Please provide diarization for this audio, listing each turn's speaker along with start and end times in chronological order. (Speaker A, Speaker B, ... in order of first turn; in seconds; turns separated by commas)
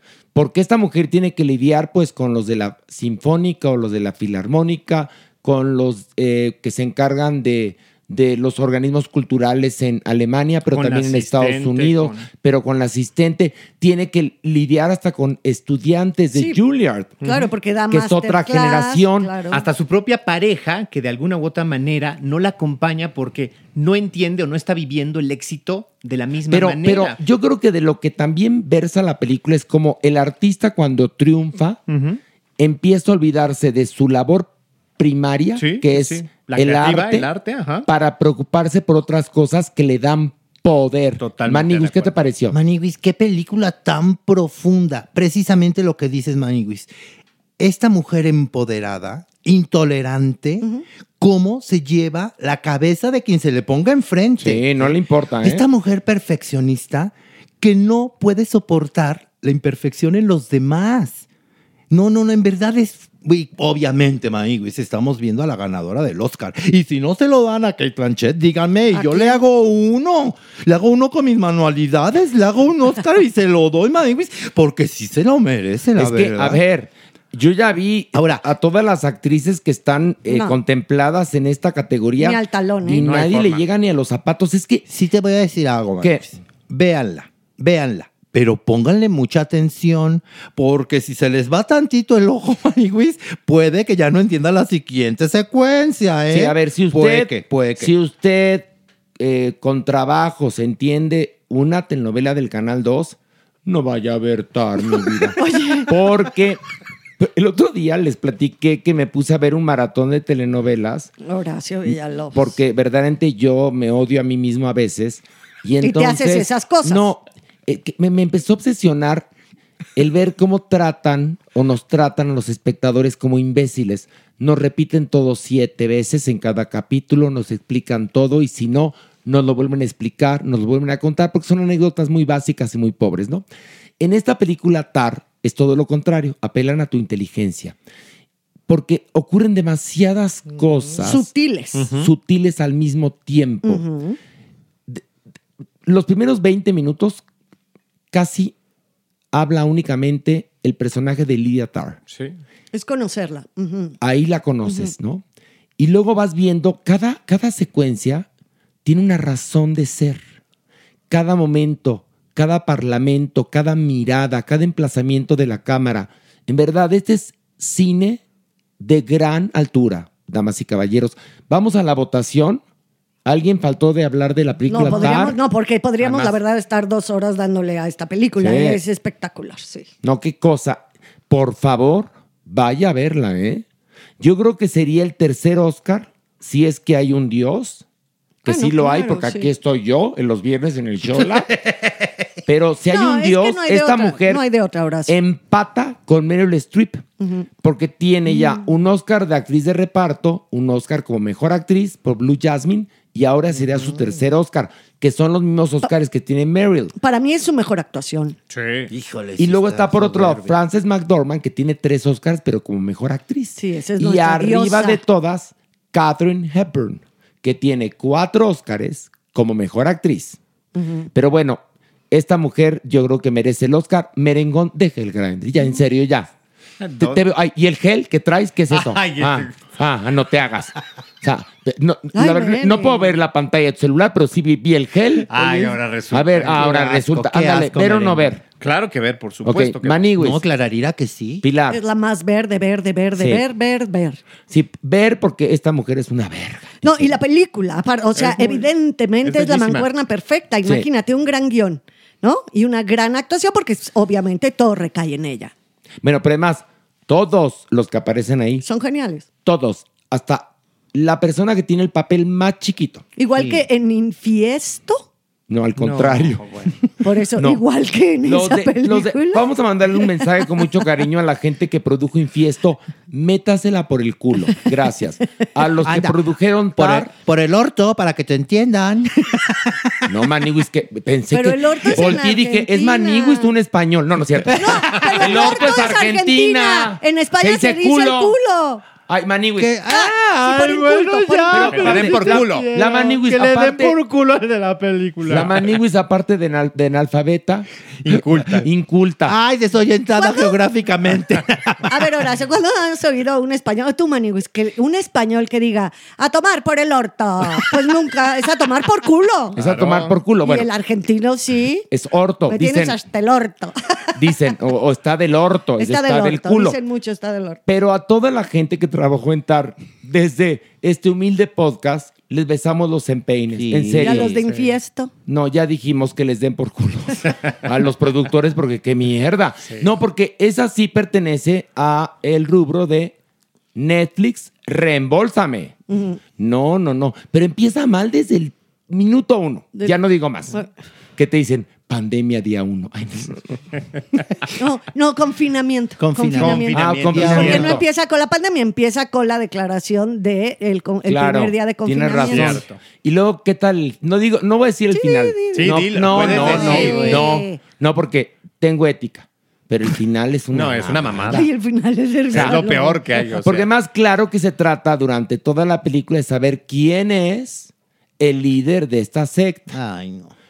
Speaker A: 0.3-17.2, Speaker B: 10.7-12.3, Speaker C: 16.3-16.6, Speaker B: 17.2-17.5, Speaker C: 17.2-19.6, Speaker A: 17.9-19.3, Speaker B: 19.5-27.2, Speaker A: 26.5-31.8, Speaker B: 31.9-32.2, Speaker A: 32.6-37.3, Speaker B: 35.6-37.9, Speaker A: 37.9-42.6, Speaker B: 41.2-42.2, Speaker D: 42.5-46.9, Speaker D: 47.6-50.7, Speaker D: 51.2-61.2, Speaker A: 54.4-55.7, Speaker D: 61.9-76.6, Speaker C: 68.9-69.5, Speaker A: 76.0-84.9, Speaker D: 78.1-78.4, Speaker C: 80.3-80.6, Speaker C: 82.2-83.1, Speaker B: 83.0-83.6, Speaker D: 84.9-97.9, Speaker A: 96.3-106.6, Speaker C: 105.4-105.9, Speaker A: 107.2-111.1, Speaker C: 111.2-112.5, Speaker A: 112.3-119.3, Speaker C: 115.8-117.1, Speaker A: 120.0-133.4, Speaker A: 134.0-137.8, Speaker A: 138.7-141.3, Speaker C: 141.0-141.9, Speaker B: 141.8-142.1, Speaker A: 141.9-143.8, Speaker C: 143.6-144.2, Speaker A: 145.9-147.2, Speaker A: 148.1-148.5, Speaker A: 149.3-152.0, Speaker B: 152.1-152.3, Speaker C: 152.7-154.0, Speaker A: 154.0-155.2, Speaker C: 154.7-154.9, Speaker A: 155.8-158.3, Speaker A: 158.8-160.2, Speaker A: 161.1-168.2, Speaker A: 168.8-172.6, Speaker A: 173.2-175.4, Speaker C: 174.7-179.9, Speaker A: 176.1-176.3, Speaker A: 178.4-178.8, Speaker A: 180.0-183.7, Speaker A: 184.2-187.8, Speaker A: 188.4-191.6, Speaker C: 188.5-189.5, Speaker A: 192.5-194.4, Speaker C: 192.9-195.1, Speaker A: 195.1-197.0, Speaker C: 197.2-197.5, Speaker A: 197.6-206.9, Speaker C: 198.3-198.6, Speaker C: 207.0-208.4, Speaker B: 208.5-208.9, Speaker D: 208.9-210.6, Speaker A: 209.4-220.4, Speaker C: 213.6-215.0, Speaker C: 220.8-221.1, Speaker A: 221.1-221.6, Speaker A: 222.1-226.3, Speaker B: 226.8-227.2, Speaker A: 227.0-238.4, Speaker B: 228.7-229.5, Speaker C: 232.1-233.1, Speaker B: 235.3-236.9, Speaker D: 236.7-238.4, Speaker B: 238.6-240.0, Speaker A: 239.4-240.4, Speaker D: 240.2-241.4, Speaker A: 241.4-241.8, Speaker C: 241.7-244.2, Speaker A: 243.2-243.4, Speaker A: 244.5-247.2, Speaker C: 246.8-255.5, Speaker B: 248.2-248.6, Speaker B: 249.2-249.9, Speaker A: 256.0-258.6, Speaker C: 258.6-259.2, Speaker A: 259.4-263.0, Speaker C: 263.2-265.1, Speaker A: 265.5-266.4, Speaker B: 266.1-266.5, Speaker C: 267.0-269.4, Speaker A: 267.4-267.6, Speaker A: 268.2-277.1, Speaker D: 275.9-276.1, Speaker D: 276.8-279.9, Speaker A: 280.1-288.4, Speaker C: 281.3-283.5, Speaker C: 284.5-288.8, Speaker A: 289.1-289.8, Speaker D: 289.6-293.9, Speaker C: 289.9-292.4, Speaker A: 291.5-294.0, Speaker B: 291.8-292.7, Speaker B: 295.2-295.5, Speaker A: 295.2-297.7, Speaker B: 298.0-298.6, Speaker A: 298.5-299.4, Speaker D: 299.3-301.9, Speaker C: 300.1-300.6, Speaker C: 301.9-309.6, Speaker A: 309.6-310.7, Speaker B: 309.6-310.1, Speaker C: 310.4-311.9, Speaker A: 311.9-313.0, Speaker C: 312.5-314.1, Speaker A: 314.1-316.8, Speaker C: 315.8-317.6, Speaker A: 317.7-324.4, Speaker D: 323.6-324.3, Speaker C: 324.0-325.1, Speaker A: 325.3-333.1, Speaker A: 333.8-335.8, Speaker C: 335.9-336.2, Speaker A: 336.4-340.6, Speaker A: 341.2-343.4, Speaker C: 344.6-352.6, Speaker D: 346.0-347.7, Speaker B: 346.3-347.7, Speaker A: 346.7-347.9, Speaker A: 351.1-361.5, Speaker B: 352.3-352.8, Speaker C: 354.9-357.6, Speaker B: 355.6-357.2, Speaker B: 360.5-361.4, Speaker C: 361.3-363.1, Speaker A: 362.3-369.8, Speaker B: 362.3-363.7, Speaker D: 369.7-370.3